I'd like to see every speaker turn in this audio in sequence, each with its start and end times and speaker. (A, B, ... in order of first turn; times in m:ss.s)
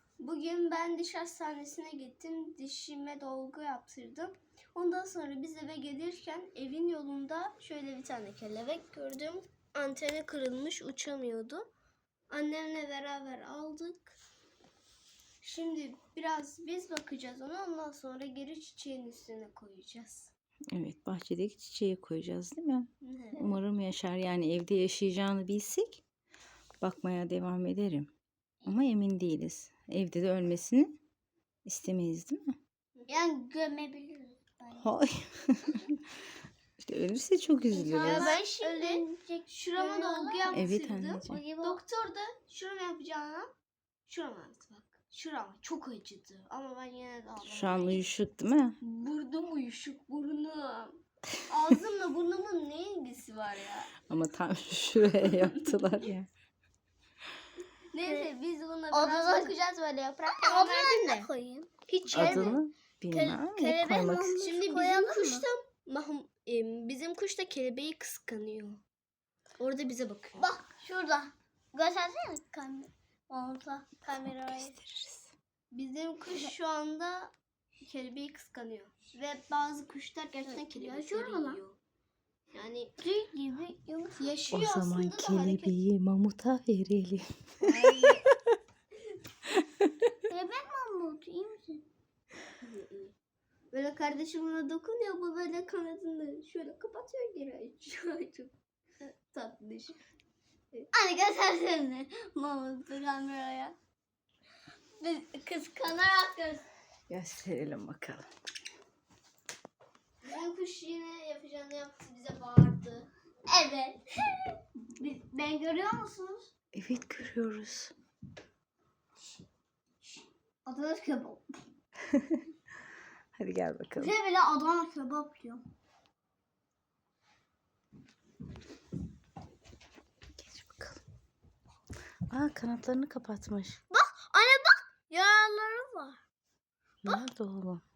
0:00.2-0:11.7 A
0:12.3-0:14.2 A
0:15.4-0:20.3 A
0:20.7-0:26.0 B
0:23.0-0:23.6 A
0:26.8-0:28.1 B
0:28.6-0:31.0 B
0:31.7-0:32.6 B
0:33.1-0:34.9 C
0:34.8-0:35.9 B
0:36.8-0:38.4 B
0:37.7-0:40.6 C
0:38.0-0:43.5 A
0:40.5-0:41.4 B
0:41.3-0:41.8 C
0:44.1-0:48.1 A
0:47.4-0:48.8 B
0:48.8-0:53.9 A
0:54.1-0:56.3 B
0:55.4-0:55.8 A
0:57.9-1:01.3 A
0:58.9-0:59.5 C
1:00.3-1:02.6 C
1:01.9-1:02.6 A
1:02.1-1:04.4 B
1:03.1-1:05.4 C
1:04.4-1:08.8 A
1:09.6-1:10.5 A
1:10.4-1:14.8 C
1:14.1-1:15.3 B
1:15.7-1:21.8 A
1:20.4-1:21.6 C
1:22.5-1:22.9 A
1:23.0-1:24.4 C
1:24.2-1:25.8 A
1:24.5-1:28.0 B
1:27.7-1:28.2 C
1:30.3-1:31.8 C
1:32.6-1:33.1 A
1:33.7-1:40.0 A
1:40.9-1:43.8 C
1:45.0-1:46.6 C
1:47.1-1:48.3 B
1:50.2-1:53.1 A
1:53.5-1:56.5 C
1:56.7-1:57.9 B
2:00.0-2:01.5 C
2:02.1-2:02.4 B
2:03.3-2:04.2 B
2:03.9-2:05.6 C
2:10.4-2:11.0 B
2:12.3-2:13.8 B
2:13.9-2:16.2 C
2:17.0-2:17.8 B